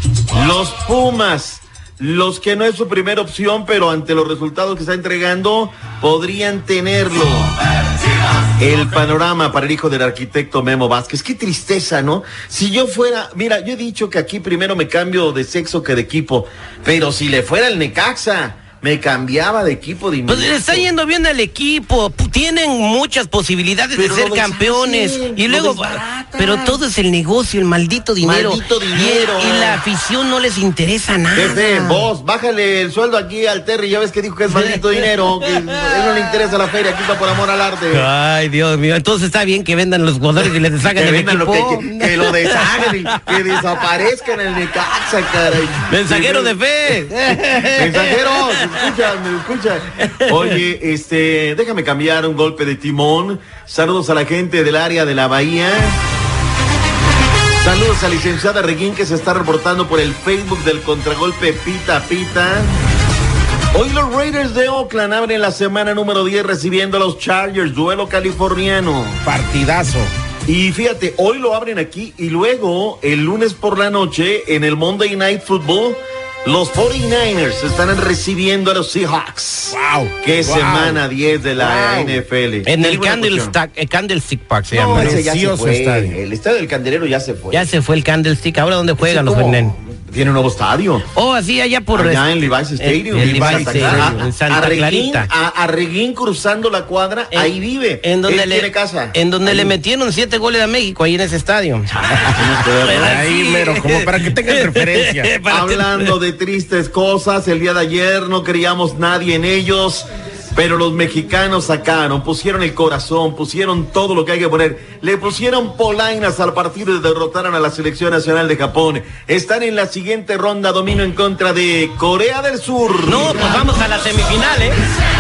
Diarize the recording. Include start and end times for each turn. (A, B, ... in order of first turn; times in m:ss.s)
0:00.3-0:07.6 A
0:08.6-0:20.9 A
0:20.3-0:32.0 B
0:24.0-0:26.8 A
0:28.2-0:29.8 A
0:31.4-0:38.1 A
0:34.5-0:35.4 B
0:37.9-0:42.9 B
0:40.9-0:46.9 A
0:45.9-0:48.8 B
0:47.8-0:56.0 A
0:57.6-1:02.8 A
1:03.7-1:09.2 A
1:09.2-1:10.1 C
1:10.5-1:23.6 A
1:19.7-1:21.0 C
1:21.6-1:22.2 C
1:22.6-1:25.2 B
1:24.7-1:27.7 A
1:24.9-1:26.2 C
1:27.5-1:29.8 B
1:29.0-1:31.1 A
1:31.1-1:32.2 B
1:31.9-1:39.8 A
1:32.8-1:35.3 B
1:33.1-1:34.3 C
1:37.3-1:42.3 B
1:42.1-1:43.2 A
1:42.8-1:46.1 B
1:43.0-1:45.3 C
1:45.5-2:03.7 A
2:03.0-2:04.8 B